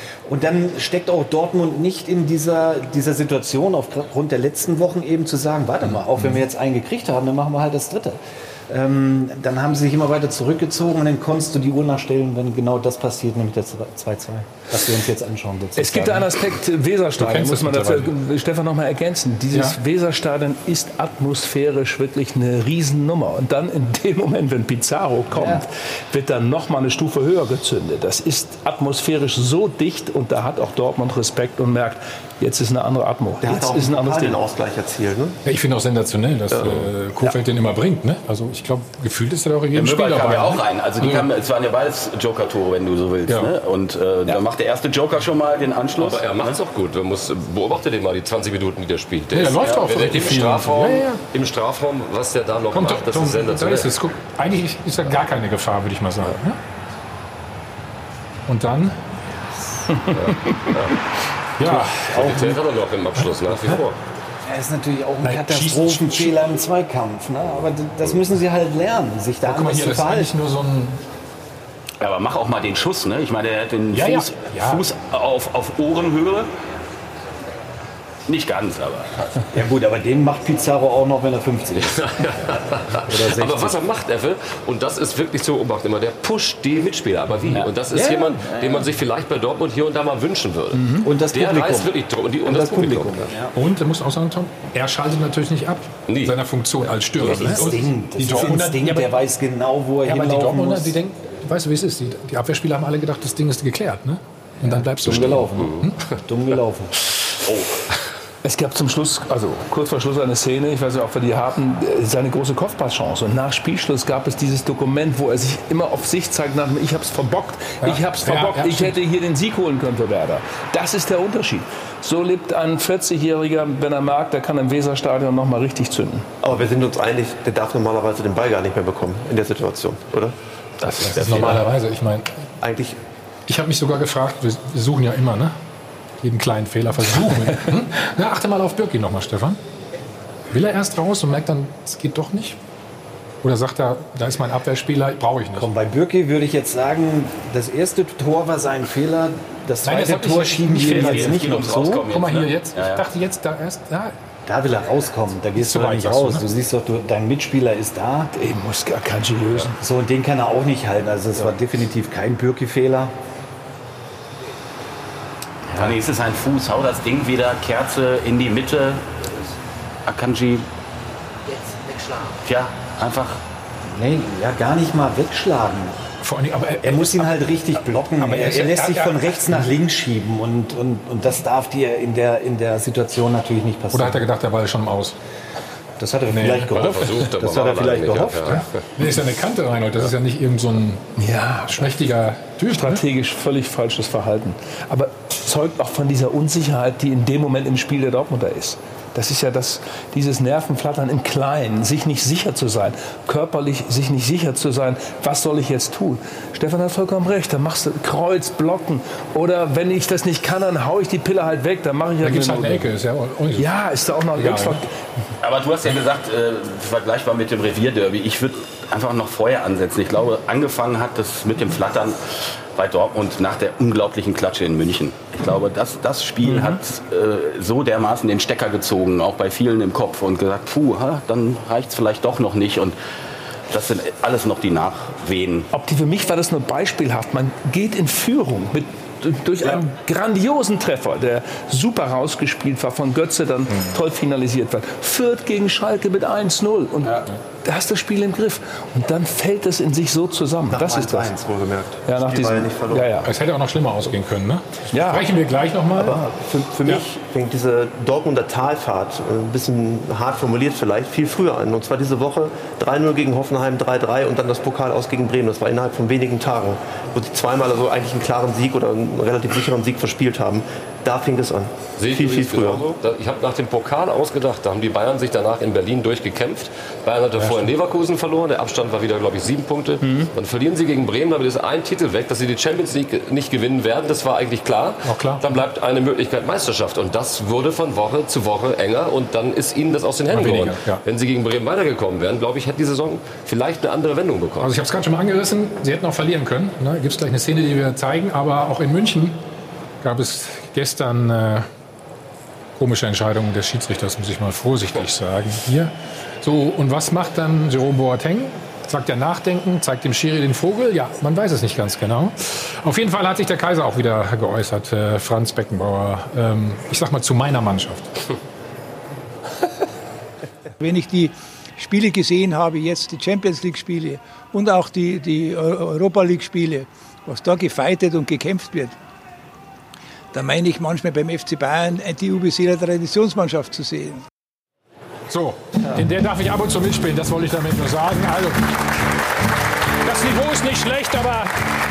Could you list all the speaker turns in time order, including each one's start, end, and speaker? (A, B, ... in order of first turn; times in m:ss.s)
0:00.3-0:16.3 A
0:15.8-0:34.3 B
0:17.2-0:18.1 C
0:19.5-0:19.8 C
0:25.3-0:25.6 A
0:33.4-0:35.4 D
0:33.5-0:34.4 A
0:35.4-0:41.3 C
0:39.7-0:46.6 E
0:43.3-0:43.5 C
0:46.0-0:53.9 F
0:49.3-0:51.2 C
0:52.7-0:56.6 C
0:58.5-0:59.0 C
1:00.1-1:00.9 F
1:01.6-1:02.0 C
1:01.7-1:02.6 A
1:02.0-1:04.0 F
1:04.5-1:10.4 A
1:05.2-1:06.4 C
1:09.4-1:11.0 C
1:12.0-1:16.5 E
1:13.9-1:14.9 C
1:18.3-1:19.1 E
1:19.5-1:22.1 A
1:21.8-1:33.3 F
1:23.0-1:23.8 A
1:27.5-1:27.7 E
1:27.9-1:28.9 A
1:31.0-1:31.9 A
1:32.5-1:33.5 A
1:32.5-1:32.8 C
1:33.5-1:39.2 C
1:36.1-1:36.4 F
1:37.2-1:37.8 F
1:37.2-1:41.0 A
1:40.0-1:46.0 C
1:44.6-1:45.7 A
1:45.1-1:45.9 F
1:46.3-1:46.9 A
1:47.5-1:47.7 E
1:48.4-2:06.3 B
1:57.8-1:59.0 C
2:06.4-2:11.6 D
2:10.8-2:12.4 C
2:12.6-2:13.0 D
2:13.5-2:15.6 C
2:16.2-2:19.6 C
2:20.5-2:22.6 C
2:23.4-2:25.7 C
2:25.6-2:32.1 A
2:29.8-2:34.1 C
2:30.8-2:33.1 E
2:34.5-2:38.3 A
2:35.6-2:36.5 C
2:38.3-2:39.8 B
2:39.8-2:43.1 A
2:45.8-2:49.3 E
2:50.1-2:50.7 E
2:52.4-2:53.4 E
2:53.9-2:56.0 A
2:56.2-2:57.4 C
2:56.8-3:04.2 A
2:58.2-2:59.7 C
3:03.9-3:05.2 C
3:06.0-3:08.6 A
3:06.3-3:07.0 C
3:06.7-3:08.8 F
3:08.5-3:11.1 C
3:11.2-3:12.0 B
3:11.7-3:13.0 C
3:12.7-3:32.9 B
3:32.2-3:33.7 C
3:33.6-3:34.9 B
3:34.4-3:34.8 C
3:35.4-3:42.2 E
3:42.8-3:53.0 E
3:46.5-3:46.8 B
3:53.7-3:55.7 E
3:55.7-4:11.3 B
4:10.7-4:13.2 D
4:12.0-4:13.3 B
4:13.2-4:16.2 C
4:14.9-4:15.3 B
4:16.0-4:32.9 D
4:16.1-4:17.0 B
4:32.0-4:54.7 F
4:37.4-4:37.7 C
4:45.0-4:45.4 C
4:50.3-4:51.0 C
4:54.6-4:59.4 C
5:00.0-5:01.7 C
5:02.8-5:18.2 C
5:20.8-5:29.0 G
5:30.3-5:34.2 G
5:35.3-5:38.7 C
5:40.0-5:41.6 C